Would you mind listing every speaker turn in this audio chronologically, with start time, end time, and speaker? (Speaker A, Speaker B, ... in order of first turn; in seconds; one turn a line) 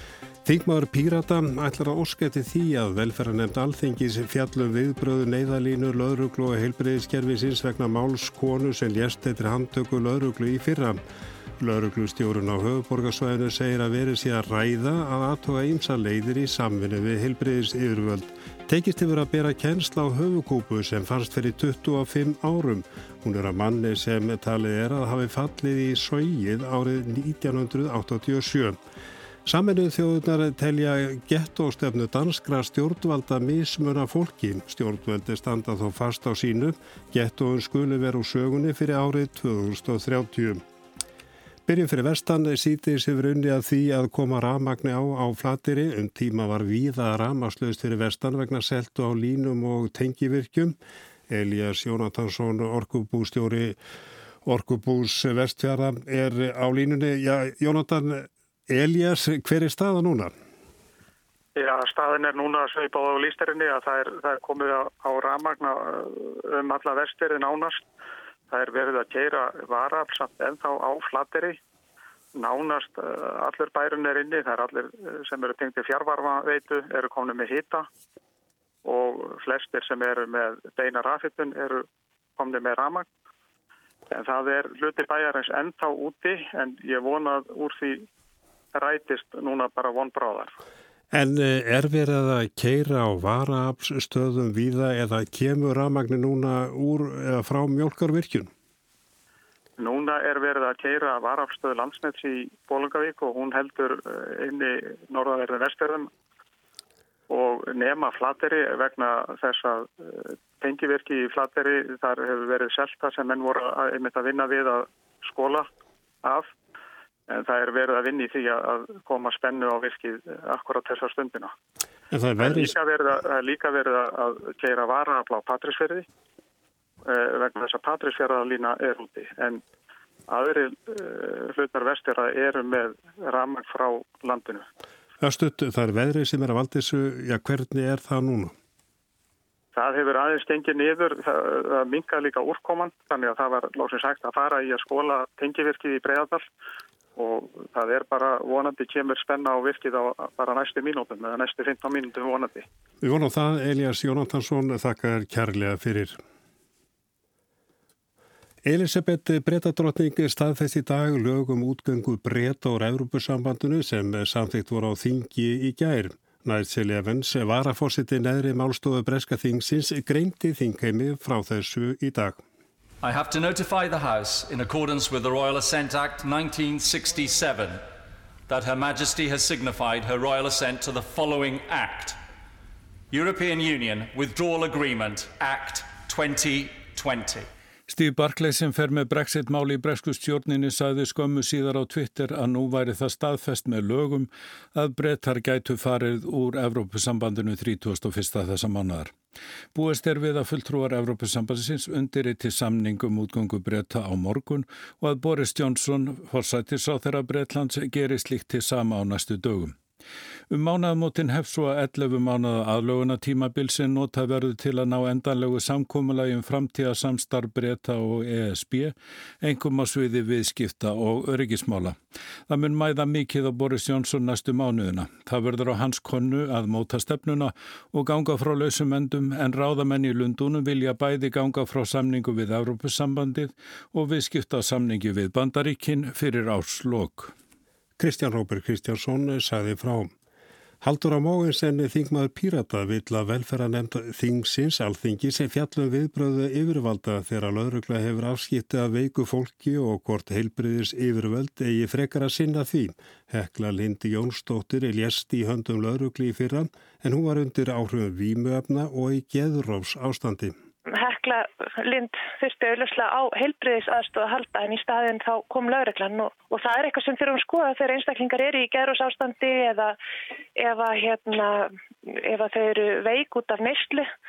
Speaker A: 0.4-11.0
Speaker A: 11.6-28.8
Speaker A: 29.4-40.6
Speaker A: 41.6-50.8
Speaker A: 51.3-53.8
Speaker A: 54.4-60.3
Speaker B: 61.6-67.8
Speaker B: 68.5-71.6
Speaker B: 72.4-77.9
Speaker B: 78.8-81.8
Speaker B: 82.4-83.1
Speaker B: 84.1-88.1
Speaker B: 88.7-90.5
Speaker A: 91.1-98.5
Speaker B: 99.8-106.1
Speaker B: 107.3-115.7
Speaker B: 116.2-116.5
Speaker B: 117.3-121.5
Speaker A: 122.1-122.7
Speaker B: 122.4-126.0
Speaker B: 127.0-129.6
Speaker B: 130.3-134.7
Speaker A: 135.2-138.5
Speaker B: 139.7-146.5
Speaker B: 147.2-152.6
Speaker A: 153.0-156.2
Speaker A: 158.6-172.4
Speaker C: 173.0-177.9
Speaker C: 178.5-182.2
Speaker C: 183.1-187.5
Speaker D: 187.9-199.2
Speaker D: 199.7-209.8
Speaker D: 210.5-237.3
Speaker A: 238.0-240.1
Speaker A: 240.8-260.5
Speaker E: 260.9-270.0
Speaker E: 270.6-274.1